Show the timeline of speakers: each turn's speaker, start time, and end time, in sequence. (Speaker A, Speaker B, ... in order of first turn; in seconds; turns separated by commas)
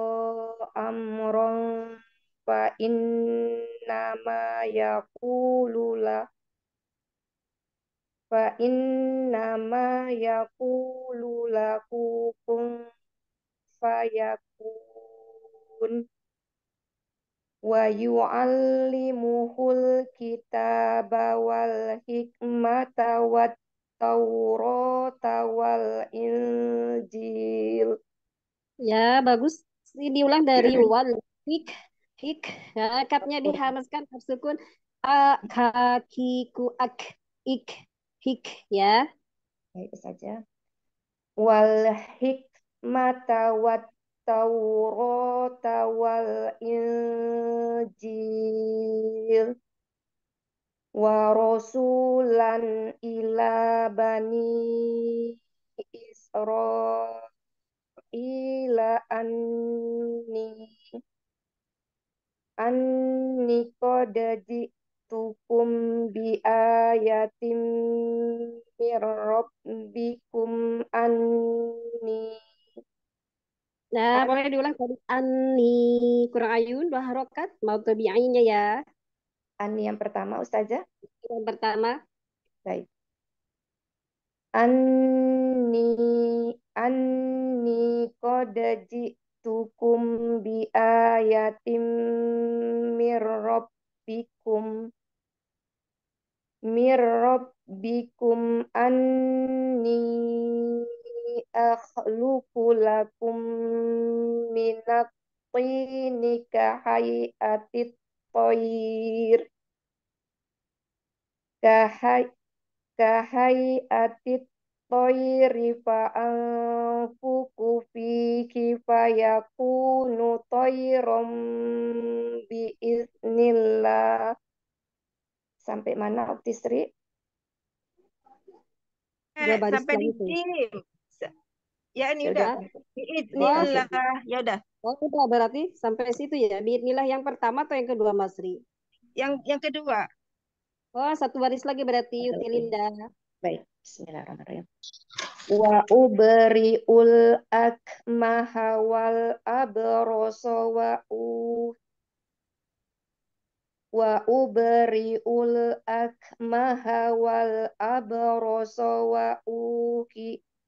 Speaker A: 0.8-1.6, Speaker A: 2.5-3.0, Speaker A: 3.9-6.2, Speaker A: 8.3-8.8, Speaker A: 9.3-12.7, Speaker A: 13.8-15.1, Speaker A: 17.7-23.5, Speaker A: 24.0-26.5, Speaker A: 27.1-27.9, Speaker B: 28.9-31.7, Speaker B: 32.2-34.5, Speaker B: 35.1-39.0, Speaker A: 39.8-40.4, Speaker A: 41.4-48.6, Speaker A: 51.0-54.7, Speaker A: 55.9-57.2, Speaker A: 58.1-60.6, Speaker A: 63.4-68.2, Speaker A: 68.8-72.4, Speaker B: 74.0-78.7, Speaker A: 79.6-80.8, Speaker B: 81.2-81.9, Speaker A: 84.6-86.0, Speaker A: 87.6-92.4, Speaker A: 93.0-94.7, Speaker A: 96.7-99.0, Speaker A: 101.6-109.4, Speaker A: 111.6-112.2, Speaker A: 113.0-121.3, Speaker A: 122.5-124.0, Speaker A: 125.6-126.9, Speaker C: 129.4-131.3, Speaker B: 129.4-130.3, Speaker C: 132.0-134.6, Speaker A: 132.2-132.7, Speaker A: 133.3-133.9, Speaker B: 133.4-133.7, Speaker B: 134.9-138.6, Speaker C: 139.2-140.1, Speaker B: 141.0-142.9, Speaker A: 142.2-142.6, Speaker A: 143.4-144.6, Speaker A: 145.5-151.7, Speaker A: 154.0-160.4